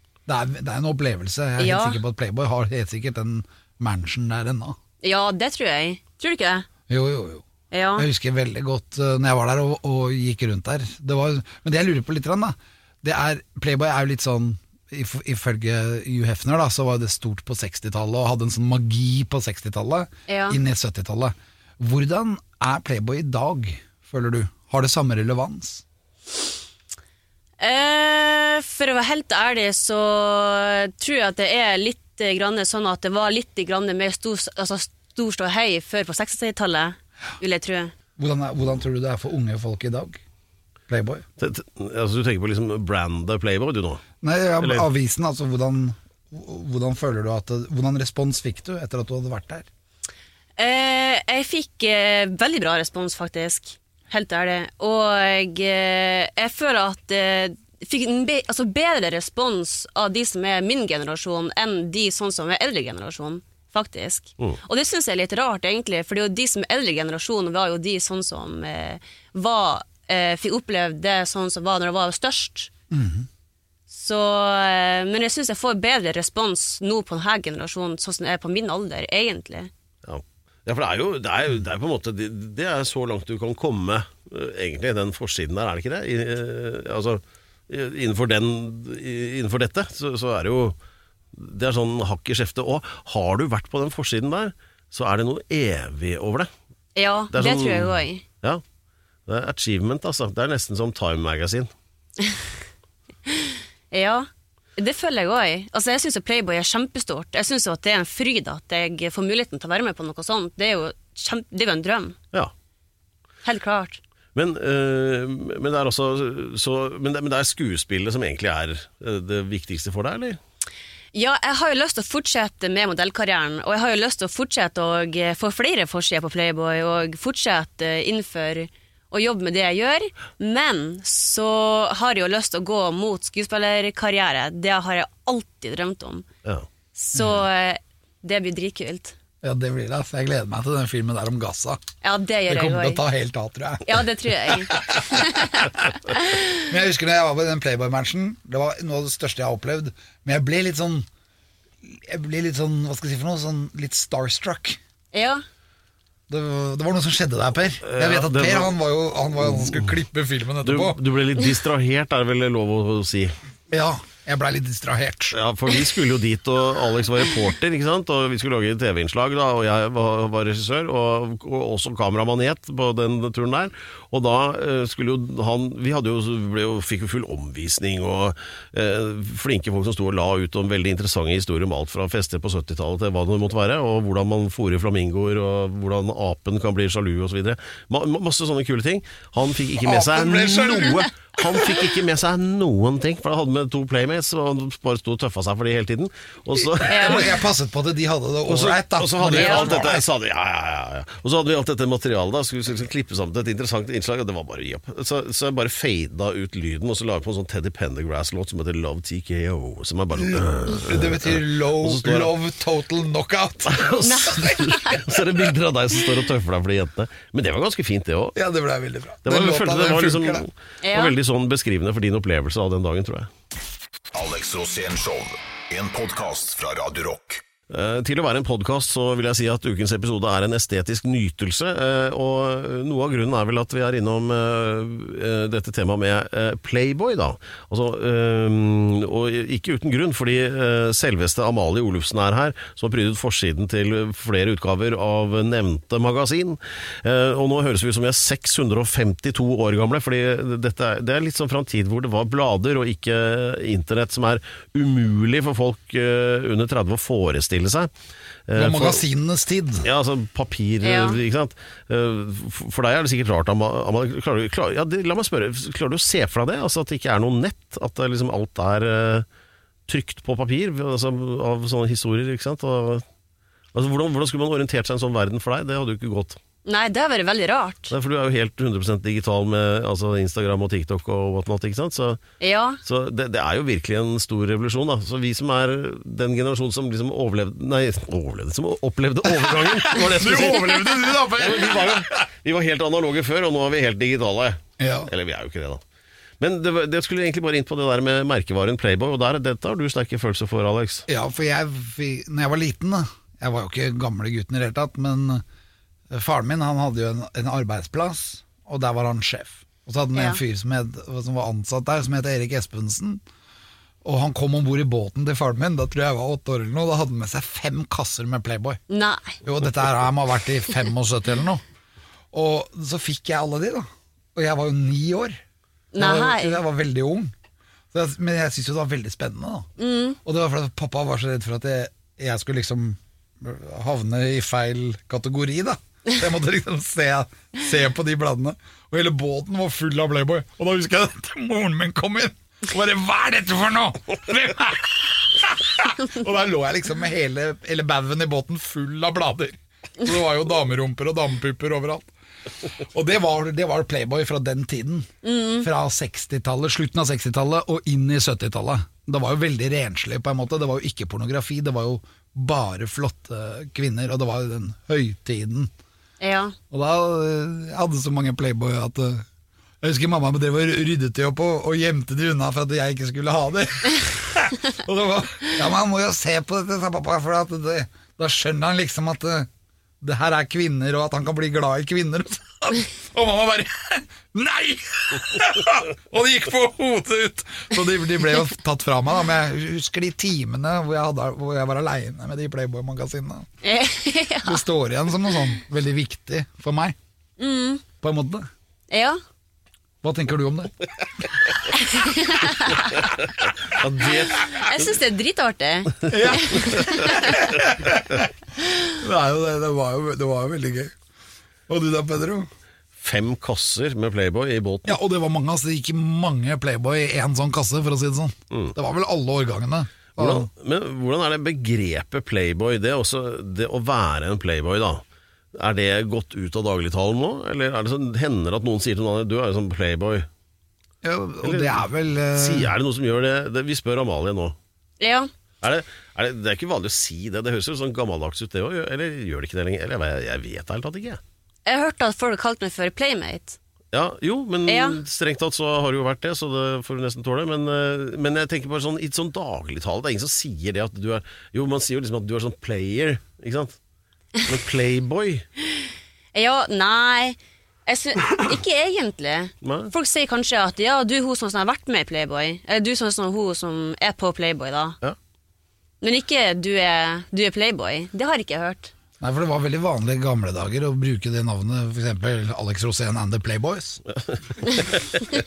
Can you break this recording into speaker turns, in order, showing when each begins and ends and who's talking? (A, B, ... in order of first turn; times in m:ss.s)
0:00.3-0:04.8 A
0:01.6-0:02.0 B
0:05.0-0:06.6 B
0:06.9-0:07.4 A
0:07.7-0:08.1 B
0:08.0-0:25.8 A
0:20.3-0:20.6 B
0:27.6-0:37.9 B
0:38.2-0:40.2 A
0:40.9-0:41.2 A
0:41.4-0:44.0 C
0:44.2-0:49.7 A
0:44.6-0:44.8 C
0:50.6-1:12.7 B
1:12.9-1:13.3 A
1:13.9-1:19.7 B
1:20.0-1:30.8 C
1:31.3-1:36.5 C
1:37.0-1:38.2 B
1:37.3-1:38.6 C
1:39.3-1:41.7 C
1:43.3-1:52.2 B
1:53.4-1:54.0 B
1:54.3-2:00.4 C
2:01.1-2:16.2 B
2:16.9-2:19.1 B
2:17.1-2:17.4 A
2:19.4-2:21.8 A
2:22.0-2:23.0 B
2:22.5-2:25.6 A
2:23.8-2:26.4 B
2:26.7-2:31.1 A
2:31.8-2:34.8 A
2:35.1-2:35.4 B
2:36.3-2:41.0 A
2:37.8-2:38.7 C
2:39.5-2:39.8 C
2:40.6-2:43.3 C
2:43.7-2:45.4 A
2:45.3-3:17.3 C
3:09.8-3:11.6 A
3:16.8-3:20.0 A
3:16.9-3:17.2 B
3:18.4-3:32.3 C
3:19.3-3:19.7 B
3:30.2-3:34.8 A
3:33.6-3:38.4 C
3:34.0-3:35.0 B
3:38.3-3:40.4 A
3:39.2-3:43.3 C
3:40.8-3:41.1 B
3:44.1-3:47.4 D
3:47.7-4:17.9 C
4:18.5-4:19.0 C
4:18.5-4:19.9 A
4:19.8-4:29.2 C
4:20.8-4:21.2 B
4:29.9-4:33.0 C
4:33.7-4:36.4 C
4:36.6-4:37.9 B
4:37.9-4:42.2 C
4:42.4-4:42.8 B
4:42.8-4:55.8 C
4:49.3-4:52.2 A
4:54.8-4:55.1 A
4:56.4-5:01.0 C
5:01.1-5:05.4 A
5:06.1-5:13.2 A
5:10.1-5:10.4 B
5:14.0-5:18.8 A
5:18.9-5:19.4 B
5:19.4-5:21.6 A
5:22.3-5:25.4 A
5:25.9-5:26.6 B
5:26.0-5:27.3 A
5:27.9-5:29.7 A
5:29.8-5:30.2 B
5:30.2-5:52.1 A
5:52.7-5:55.1 A
5:55.2-5:55.7 B
5:55.6-6:05.7 A
6:06.2-6:06.6 B
6:06.7-6:09.2 A
6:09.8-6:19.5 A
6:20.0-6:33.5 A
6:33.6-6:34.6 B
6:34.4-6:37.0 A
6:37.4-6:37.8 B
6:38.0-6:38.5 A
6:38.9-6:39.2 B
6:40.0-6:40.7 A
6:41.7-6:43.1 B
6:43.6-6:44.9 C
6:44.5-6:47.4 B
6:46.1-6:50.9 A
6:51.7-6:52.5 A
6:53.0-6:55.0 C
6:54.8-7:00.5 A
7:00.2-7:05.0 C
7:05.5-7:10.3 C
7:11.0-7:12.7 A
7:11.4-7:14.6 C
7:15.0-7:15.3 B
7:15.6-7:21.2 C
7:21.6-7:23.6 B
7:23.9-7:33.8 C
7:24.7-7:25.0 B
7:34.4-7:35.4 C
7:36.3-7:45.0 B
7:39.6-7:39.9 C
7:46.0-7:48.9 B
7:49.2-7:54.0 A